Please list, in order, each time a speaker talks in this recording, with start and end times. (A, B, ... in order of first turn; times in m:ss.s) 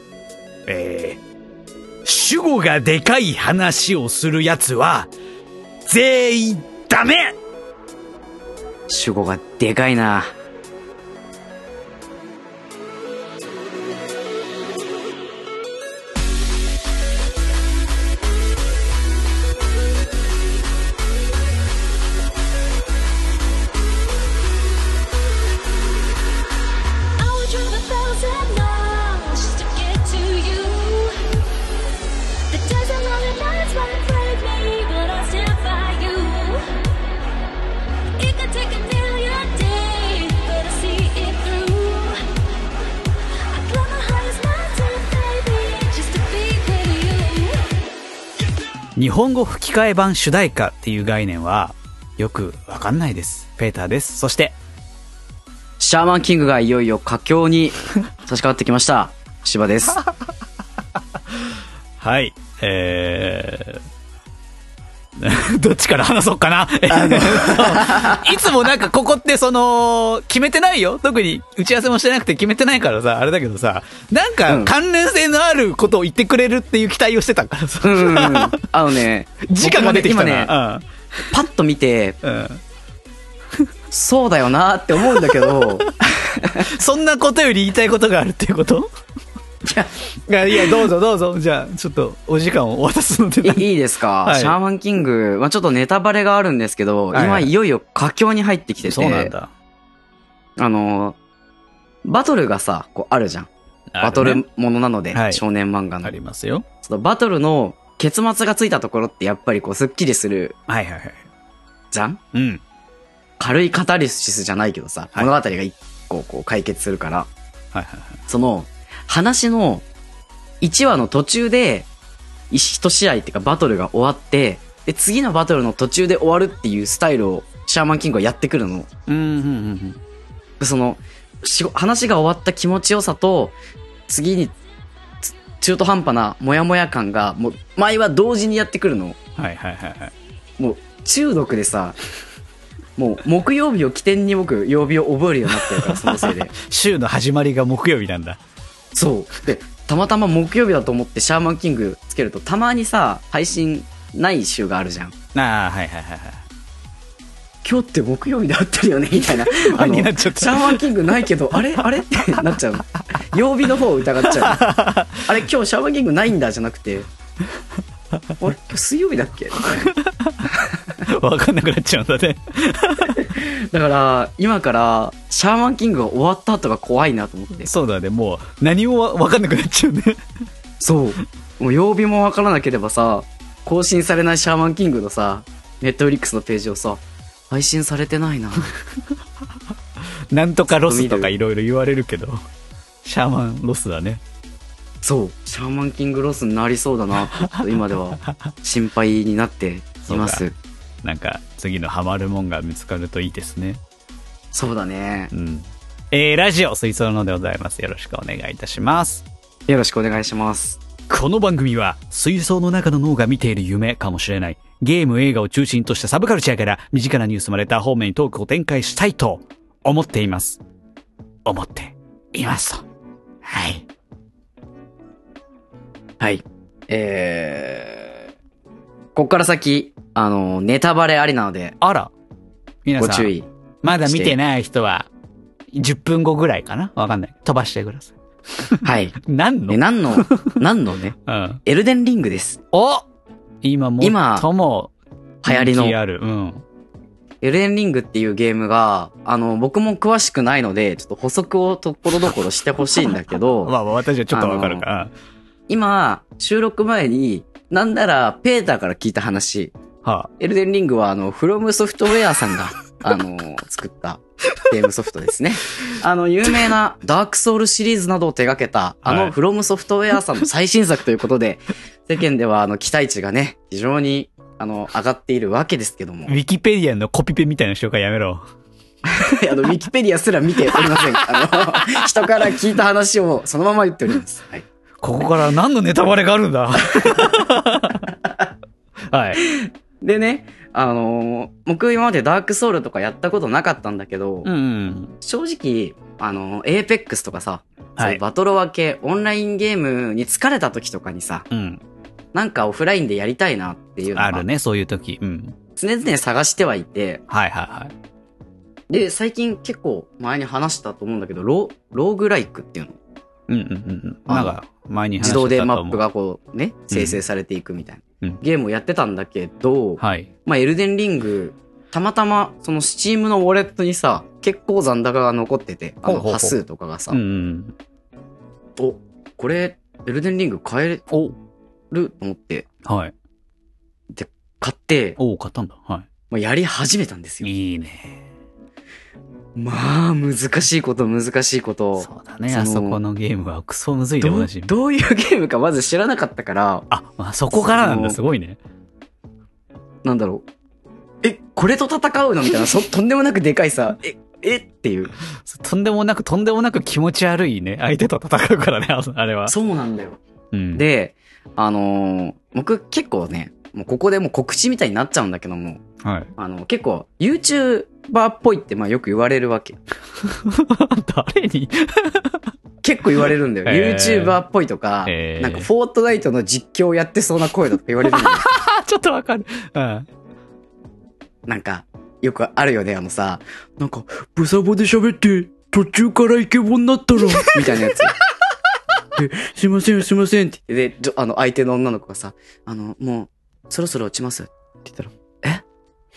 0:00.7-0:01.2 A
0:02.0-0:05.1 A
0:05.8-0:07.4 A
0:08.9-0:10.3 B
0:27.2-0:31.2 C
0:32.5-0:36.6 C
0:38.2-0:42.2 C
0:43.5-0:47.6 C
0:49.0-0:54.6 A
0:55.8-1:00.0 B
1:02.0-1:03.8 A
1:05.2-1:18.6 A
1:06.9-1:08.3 B
1:14.5-1:14.7 B
1:17.8-1:20.5 B
1:19.5-1:20.9 A
1:21.3-1:22.2 B
1:22.2-1:22.6 A
1:23.9-1:26.7 B
1:25.1-1:28.9 A
1:29.6-1:29.9 B
1:30.3-1:33.7 A
1:33.4-1:39.3 B
1:34.2-1:34.6 A
1:37.1-1:37.5 A
1:38.8-1:39.5 A
1:40.6-1:41.2 B
1:42.0-1:46.1 B
1:43.9-1:44.4 A
1:45.1-1:45.4 A
1:46.0-1:46.7 A
1:46.8-1:50.6 B
1:50.7-1:51.2 A
1:51.9-1:52.2 B
1:52.3-1:52.6 A
1:53.4-1:57.3 B
1:57.7-1:58.2 A
1:58.3-1:59.8 B
2:00.6-2:01.9 B
2:02.5-2:08.9 B
2:09.1-2:10.0 A
2:10.6-2:13.6 B
2:14.1-2:14.6 B
2:15.2-2:19.2 B
2:19.4-2:20.1 A
2:20.6-2:22.0 B
2:23.0-2:26.5 B
2:25.6-2:28.4 A
2:28.9-2:35.1 B
2:35.3-2:36.4 A
2:37.6-2:44.7 B
2:39.2-2:41.0 A
2:44.3-2:45.3 A
2:45.2-2:47.1 B
2:48.4-2:49.9 B
2:49.8-2:50.5 A
2:51.0-2:53.3 A
2:53.1-2:57.7 B
2:57.6-3:00.2 A
3:00.8-3:08.7 B
3:10.3-3:12.4 A
3:10.8-3:11.3 B
3:13.0-3:14.2 A
3:15.0-3:20.6 B
3:17.4-3:17.7 A
3:20.0-3:20.4 A
3:21.0-3:23.8 A
3:24.5-3:25.3 B
3:25.3-3:29.2 A
3:29.7-3:30.8 B
3:31.1-3:40.6 A
3:41.4-3:42.8 A
3:43.4-3:43.8 A
3:46.2-3:48.2 B
3:49.1-3:51.8 B
3:51.8-3:52.1 A
3:52.8-3:53.3 A
3:53.0-3:54.4 B
3:53.8-3:55.1 A
3:55.7-4:00.5 A
3:58.8-3:59.2 B
3:59.7-4:02.6 B
4:01.2-4:01.6 A
4:02.7-4:03.0 A
4:03.6-4:04.9 A
4:04.0-4:04.5 B
4:05.4-4:06.0 B
4:05.4-4:06.6 A
4:07.4-4:13.7 B
4:13.0-4:15.1 A
4:14.3-4:14.8 B
4:15.7-4:19.7 B
4:20.0-4:20.3 A
4:20.4-4:36.4 B
4:29.0-4:29.3 A
4:36.3-4:38.4 A
4:39.1-4:44.6 B
4:40.7-4:42.0 A
4:45.0-4:48.1 A
4:47.0-4:47.4 B
4:49.1-4:49.4 A
4:49.4-4:54.5 B
4:54.4-4:55.2 A
4:55.2-5:01.5 B
5:01.5-5:01.8 A
5:02.3-5:04.5 B
5:04.1-5:05.6 A
5:05.8-5:07.2 B
5:07.3-5:07.9 A
5:08.9-5:13.0 B
5:13.5-5:16.0 A
5:14.3-5:14.6 B
5:15.2-5:27.2 B
5:16.9-5:17.2 A
5:20.0-5:20.3 A
5:26.0-5:26.6 A
5:27.1-5:27.8 A
5:28.8-5:31.1 B
5:31.1-5:31.4 A
5:31.9-5:32.7 B
5:32.8-5:33.1 A
5:34.1-5:35.2 B
5:35.2-5:36.1 A
5:36.3-5:37.5 B
5:37.4-5:38.2 A
5:39.6-5:43.0 B
5:42.0-5:44.7 A
5:44.2-5:46.9 B
5:46.9-5:48.6 A
5:47.5-5:48.2 B
5:50.0-5:50.4 B
5:51.2-5:55.1 B
5:55.4-5:59.6 A
5:59.5-6:00.2 B
6:00.5-6:00.8 A
6:00.7-6:05.8 B
6:06.0-6:06.3 A
6:06.4-6:09.8 B
6:10.2-6:12.5 A
6:12.8-6:18.5 B
6:13.7-6:14.4 A
6:15.1-6:15.7 A
6:18.1-6:20.1 A
6:21.5-6:28.2 B
6:27.4-6:28.0 A
6:29.2-6:35.6 B